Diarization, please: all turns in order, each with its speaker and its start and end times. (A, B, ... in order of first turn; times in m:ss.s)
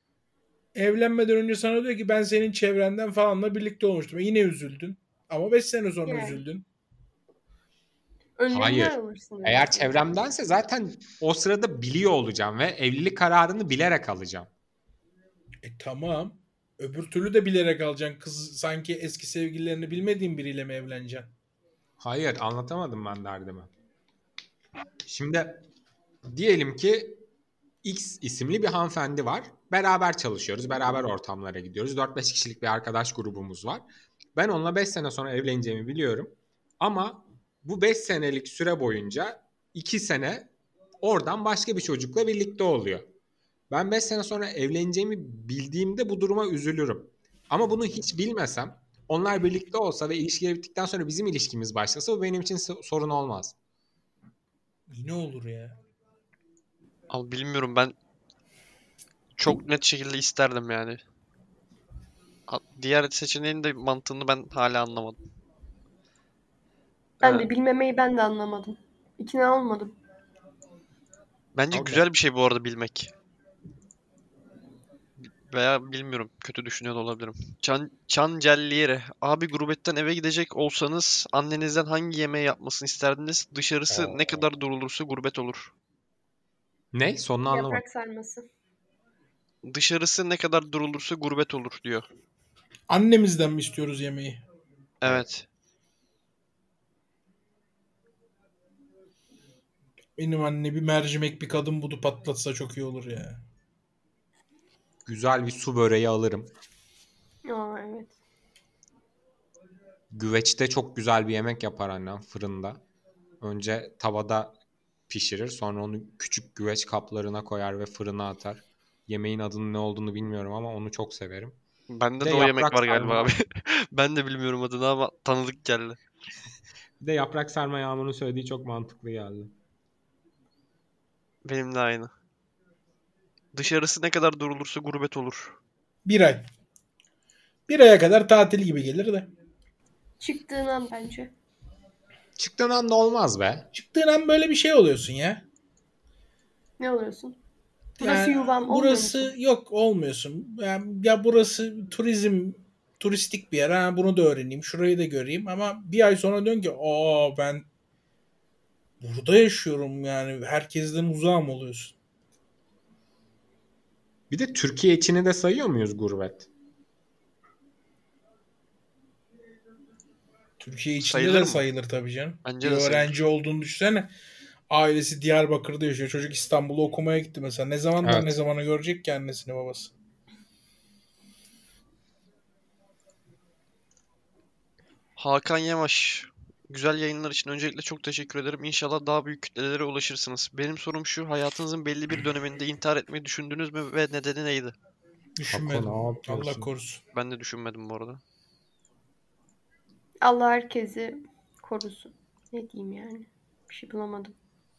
0:00.7-0:06.6 A
0:06.1-0:06.4 B
0:08.4-0:10.1 B
0:08.5-0:14.5 C
0:15.6-0:21.3 A
0:22.0-0:23.7 C
0:25.0-0:25.6 C
0:26.3-0:27.2 C
0:27.8-0:33.8 C
0:34.4-0:40.5 C
0:41.0-0:43.1 C
0:43.7-0:53.6 C
0:54.9-0:55.8 A
0:57.1-0:58.0 D
0:59.4-1:01.0 D
1:02.5-1:05.2 D
1:07.2-1:10.0 B
1:07.2-1:07.5 D
1:11.6-1:13.1 D
1:11.7-1:12.0 C
1:15.2-1:25.7 D
1:23.9-1:24.4 C
1:26.9-1:27.8 C
1:27.5-1:28.5 B
1:29.6-1:32.1 D
1:32.9-1:34.4 A
1:35.0-1:35.5 D
1:40.2-1:43.4 A
1:45.0-1:46.5 C
1:47.4-1:48.1 B
1:50.1-1:52.8 C
1:53.4-1:54.6 C
1:55.1-2:01.6 C
2:01.9-2:06.0 D
2:02.2-2:03.3 C
2:07.0-2:09.6 C
2:11.4-2:12.1 D
2:13.5-2:15.6 D
2:16.1-2:16.4 A
2:17.7-2:19.3 A
2:20.2-2:21.3 B
2:22.4-2:23.7 C
2:23.7-2:25.4 A
2:26.8-2:27.4 B
2:28.0-2:37.6 A
2:28.0-2:29.3 B
2:39.0-2:42.0 A
2:44.3-2:46.5 C
2:50.6-2:54.1 A
2:51.0-2:51.6 D
2:52.4-2:53.2 D
2:54.7-2:59.9 A
2:58.0-2:58.3 C
3:05.2-3:14.7 D
3:15.4-3:17.0 A
3:15.5-3:16.7 C
3:17.1-3:18.2 D
3:20.2-3:24.4 B